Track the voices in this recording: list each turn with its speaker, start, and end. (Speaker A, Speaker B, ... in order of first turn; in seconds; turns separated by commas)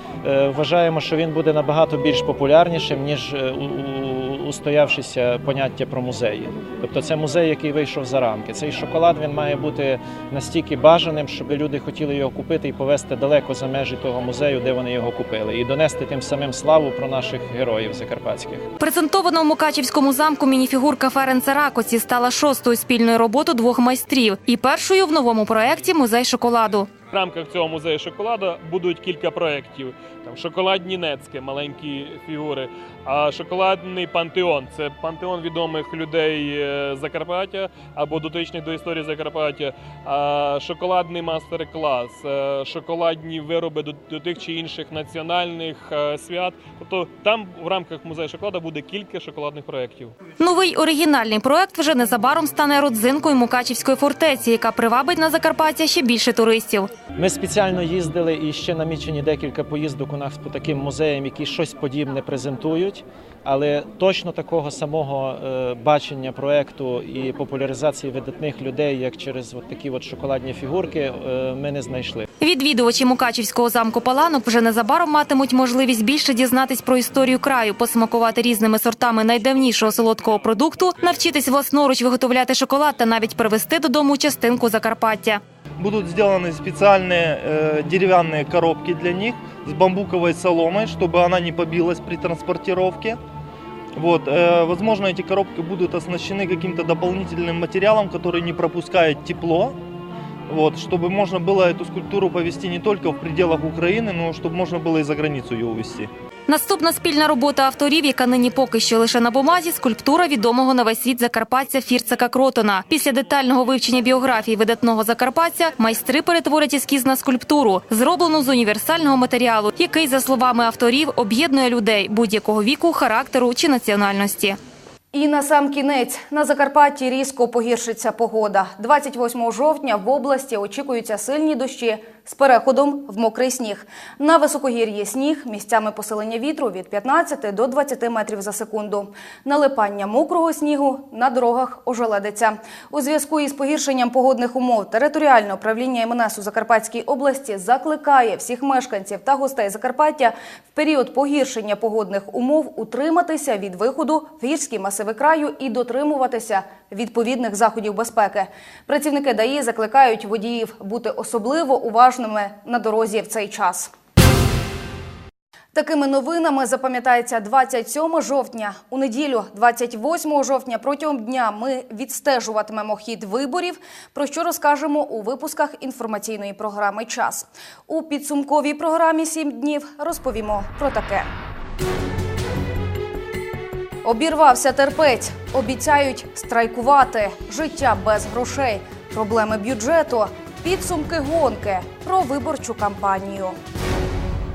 Speaker A: 0.2-18.6, Speaker B: 18.8-26.9, Speaker C: 27.1-50.1, Speaker B: 50.4-56.9, Speaker A: 57.2-72.3, Speaker B: 72.4-85.4, Speaker D: 85.8-93.2, Speaker D: 94.0-99.8, Speaker D: 100.5-106.1, Speaker B: 106.5-124.6, Speaker E: 125.1-163.9, Speaker E: 165.7-181.3, Speaker E: 184.0-193.6